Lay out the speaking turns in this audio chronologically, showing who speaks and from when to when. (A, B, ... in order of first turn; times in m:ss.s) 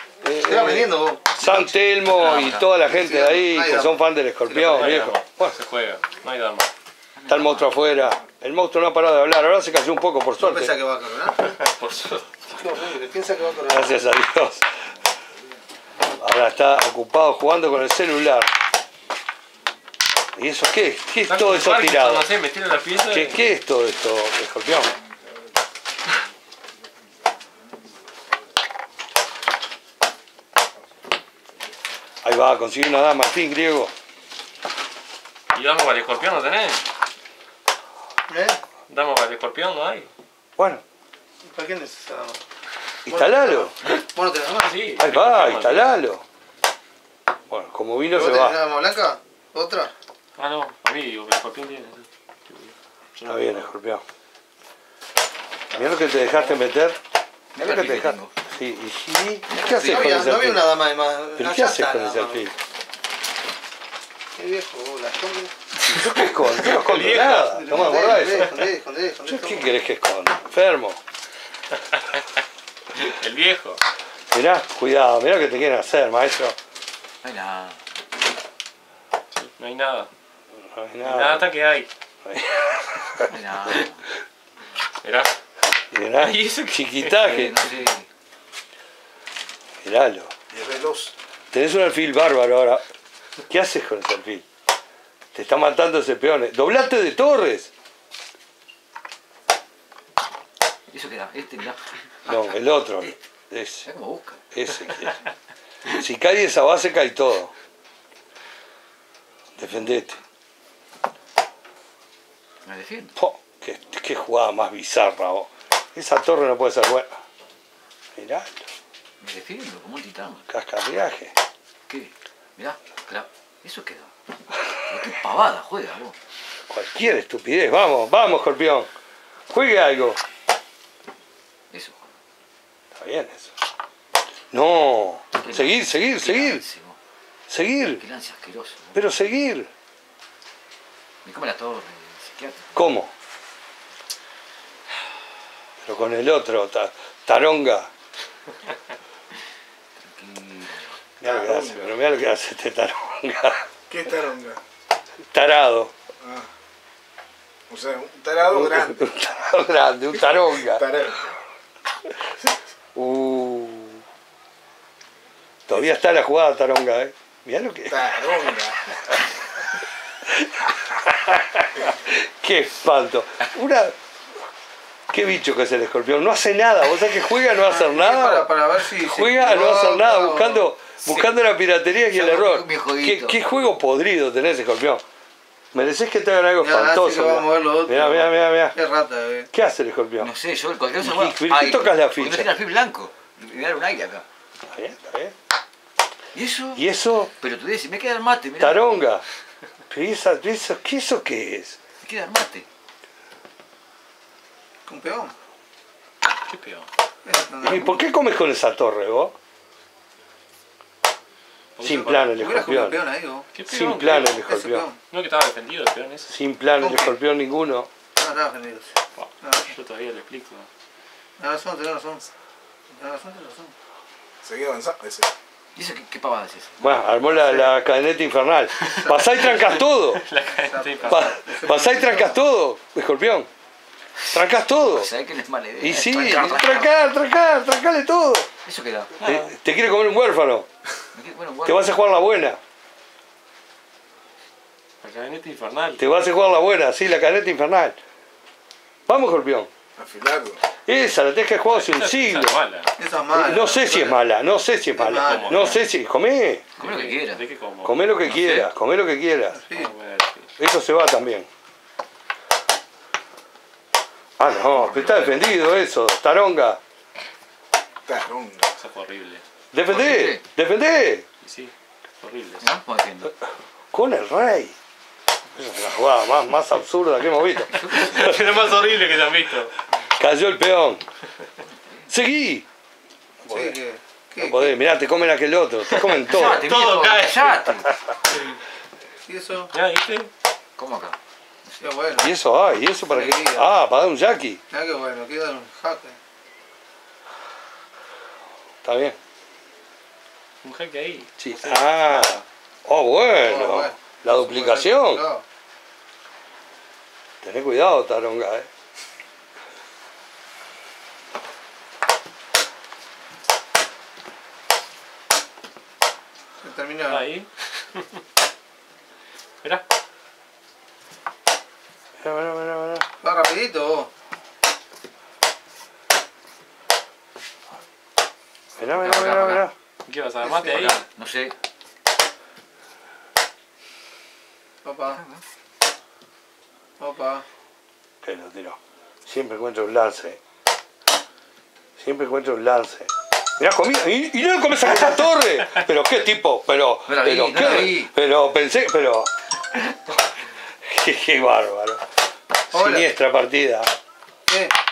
0:00.2-0:05.6 A
0:00.4-0:01.4 B
0:02.1-0:02.8 C
0:02.8-0:04.0 B
0:04.4-0:06.7 D
0:07.2-0:07.8 C
0:07.3-0:10.8 A
0:10.4-0:11.5 B
0:11.4-0:12.3 D
0:12.5-0:14.0 B
0:13.7-0:14.6 A
0:16.2-0:18.5 A
0:20.3-0:22.3 A
0:21.2-0:23.4 D
0:23.0-0:24.9 A
0:32.2-0:33.9 A
0:35.5-0:36.8 D
0:38.3-0:38.6 B
0:38.9-0:40.1 D
0:40.6-0:40.8 A
0:41.4-0:42.4 B
0:43.0-0:43.7 A
0:43.1-0:44.8 B
0:44.6-0:45.9 D
0:45.0-0:46.2 A
0:47.5-0:48.6 A
0:48.1-0:49.9 B
0:50.4-0:53.7 D
0:53.2-0:54.0 A
0:55.7-0:57.0 A
0:57.6-0:58.4 C
0:57.6-1:00.7 A
0:59.5-1:00.3 C
0:59.6-1:02.5 B
1:01.4-1:02.5 A
1:04.4-1:05.5 B
1:05.8-1:08.7 A
1:06.5-1:07.6 D
1:07.3-1:09.8 B
1:09.2-1:11.0 A
1:12.9-1:13.8 D
1:14.3-1:16.6 A
1:17.2-1:17.8 C
1:19.3-1:20.1 D
1:20.7-1:21.5 A
1:21.0-1:21.9 D
1:22.2-1:23.3 A
1:23.3-1:24.0 C
1:25.0-1:25.3 D
1:25.9-1:27.7 A
1:26.1-1:27.2 D
1:27.2-1:28.1 C
1:29.8-1:30.3 A
1:30.5-1:31.1 E
1:31.5-1:32.8 A
1:33.5-1:34.4 A
1:35.3-1:37.7 A
1:40.9-1:42.4 C
1:42.2-1:43.9 A
1:43.8-1:44.4 C
1:44.5-1:45.2 A
1:45.9-1:47.5 A
1:49.6-1:50.2 A
1:52.7-1:53.1 C
1:53.2-1:57.1 A
1:58.2-1:58.6 A
1:59.2-2:00.4 C
2:00.5-2:01.3 A
2:01.9-2:04.1 C
2:04.9-2:06.2 C
2:06.7-2:08.9 A
2:09.5-2:10.2 A
2:11.7-2:12.1 C
2:12.9-2:13.5 A
2:14.5-2:16.6 A
2:15.4-2:17.0 C
2:17.5-2:18.0 A
2:17.9-2:19.0 C
2:18.9-2:19.7 A
2:21.2-2:23.0 C
2:22.7-2:23.1 A
2:25.8-2:27.9 A
2:30.0-2:30.9 C
2:31.2-2:33.7 A
2:31.2-2:32.0 E
2:33.9-2:34.6 E
2:35.3-2:35.9 A
2:36.2-2:36.5 E
2:37.7-2:39.0 E
2:38.5-2:40.9 A
2:40.6-2:41.3 E
2:43.0-2:44.0 A
2:45.7-2:48.1 A
2:47.9-2:48.9 E
2:50.4-2:54.0 A
2:55.1-3:05.0 A
2:57.6-3:00.7 B
3:01.0-3:01.3 C
3:02.0-3:03.4 C
3:05.7-3:08.8 A
3:06.6-3:09.5 B
3:09.5-3:10.3 A
3:10.2-3:14.2 C
3:11.0-3:12.5 A
3:14.7-3:15.3 A
3:16.3-3:16.8 C
3:16.7-3:17.3 A
3:17.4-3:18.8 C
3:18.6-3:19.2 A
3:19.9-3:21.8 A
3:22.0-3:22.7 C
3:24.9-3:25.3 B
3:26.5-3:26.9 D
3:27.2-3:28.1 B
3:27.6-3:29.3 A
3:31.8-3:32.4 D
3:31.8-3:33.0 A
3:32.4-3:33.5 B
3:33.5-3:34.4 D
3:33.7-3:34.9 A
3:34.4-3:35.0 B
3:35.1-3:36.3 D
3:36.3-3:37.9 A
3:36.8-3:37.2 B
3:38.2-3:38.9 B
3:39.2-3:40.7 D
3:39.4-3:39.7 B
3:41.4-3:42.3 B
3:43.0-3:43.7 B
3:44.4-3:45.3 E
3:45.7-3:47.1 C
3:46.8-3:50.2 A
3:47.4-3:47.7 B
3:48.8-3:51.4 D
3:48.9-3:49.4 B
3:50.6-3:52.4 B
3:51.1-3:53.5 A
3:54.3-3:55.1 A
3:54.9-3:56.9 C
3:55.8-3:58.5 A
3:58.6-3:59.4 C
3:59.2-4:00.7 A
3:59.2-3:59.5 D
4:01.1-4:02.0 C
4:01.6-4:02.6 A
4:05.0-4:06.0 D
4:06.0-4:08.0 A
4:09.1-4:09.7 A
4:10.0-4:10.6 E
4:10.8-4:12.6 A
4:11.7-4:12.9 D
4:13.0-4:14.1 B
4:13.3-4:16.6 A
4:14.9-4:15.7 B
4:15.2-4:15.8 D
4:16.8-4:18.7 D
4:16.8-4:17.4 C
4:17.8-4:19.6 A
4:19.6-4:19.9 B
4:19.7-4:20.5 D
4:20.6-4:21.5 A
4:24.4-4:26.8 A
4:25.0-4:25.4 C
4:28.1-4:28.7 E
4:28.8-4:29.4 D
4:29.7-4:31.2 A
4:29.9-4:30.4 C
4:31.4-4:32.7 D
4:32.6-4:33.3 C
4:33.9-4:34.8 A
4:35.5-4:38.4 A
4:37.8-4:38.1 C
4:37.8-4:39.7 D
4:40.1-4:41.0 A
4:41.6-4:42.1 C
4:42.1-4:42.6 A
4:43.4-4:43.8 A
4:43.5-4:44.7 B
4:44.4-4:46.7 A
4:46.0-4:47.6 D
4:46.2-4:47.9 C
4:49.3-4:49.7 B
4:49.7-4:50.3 D
4:50.8-4:51.9 C
4:51.8-4:52.3 B
4:52.2-4:54.6 A
4:53.1-4:53.7 B
4:54.7-4:56.2 B
4:58.8-4:59.2 A
5:00.6-5:02.4 D
5:01.4-5:05.2 A
5:03.4-5:05.4 B
5:07.4-5:08.7 A
5:16.6-5:17.3 B
5:17.1-5:18.0 D
5:22.2-5:23.1 A
5:23.2-5:24.1 B
5:28.8-5:29.7 A
5:29.0-5:29.6 C
5:30.1-5:31.0 D
5:30.4-5:31.5 C
5:34.8-5:35.2 B
5:37.0-5:37.4 B
5:38.2-5:40.4 A
5:42.0-5:49.3 A
5:47.1-5:48.1 C
5:50.8-5:52.0 A
5:52.7-5:53.9 A
5:52.7-5:53.1 B
5:54.5-5:54.7 B